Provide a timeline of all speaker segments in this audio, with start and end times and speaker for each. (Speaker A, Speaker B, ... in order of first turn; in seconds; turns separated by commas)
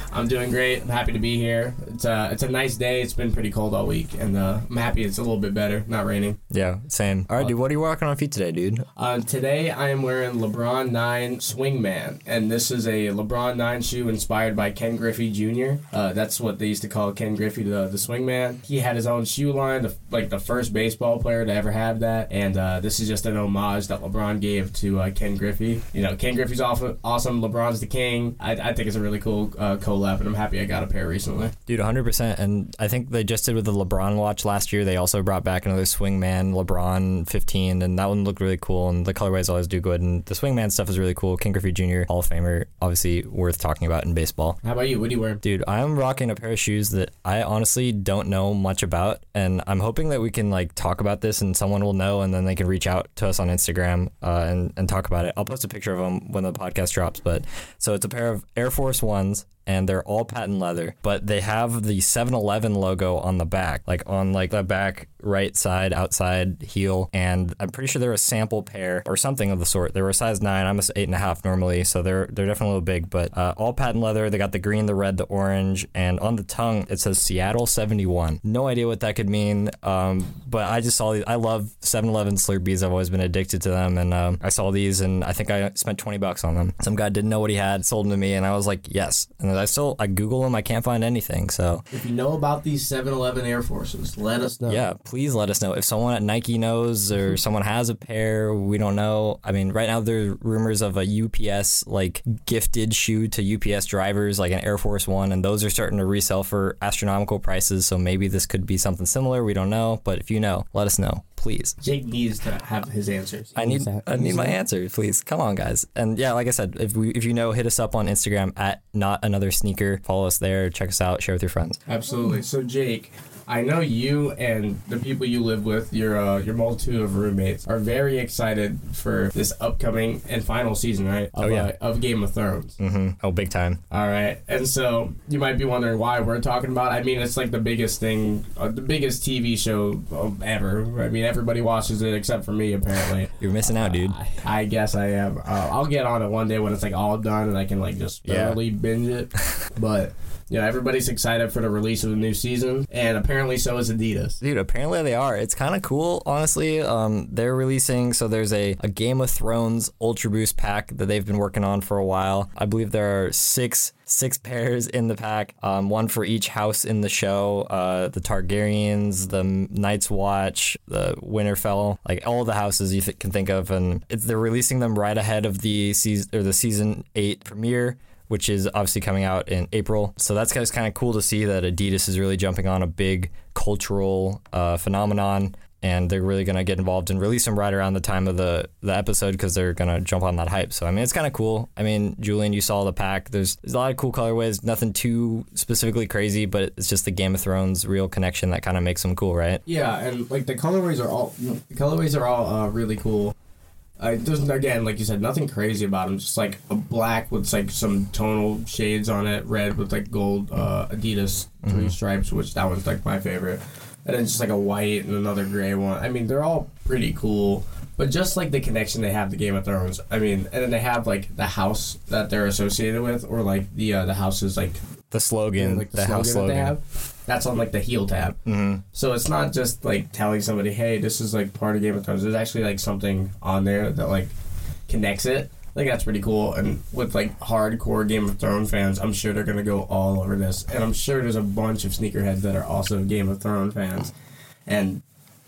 Speaker A: 0.1-6.4, Speaker B: 6.5-8.8, Speaker A: 9.0-31.6, Speaker B: 31.7-44.6, Speaker A: 44.6-45.4, Speaker B: 45.4-91.8, Speaker A: 91.9-94.8, Speaker B: 94.7-111.8, Speaker A: 111.8-114.6, Speaker B: 113.5-121.8, Speaker A: 121.9-132.8, Speaker B: 131.4-131.7, Speaker B: 132.8-133.8, Speaker A: 133.9-154.4, Speaker B: 143.4-144.2, Speaker B: 148.3-148.6, Speaker B: 154.4-199.6, Speaker A: 199.7-203.3, Speaker A: 204.0-224.8, Speaker B: 211.7-211.9, Speaker B: 225.1-226.7, Speaker A: 225.6-228.4, Speaker B: 228.5-228.8, Speaker A: 228.9-234.3, Speaker A: 234.9-244.1, Speaker A: 244.7-245.0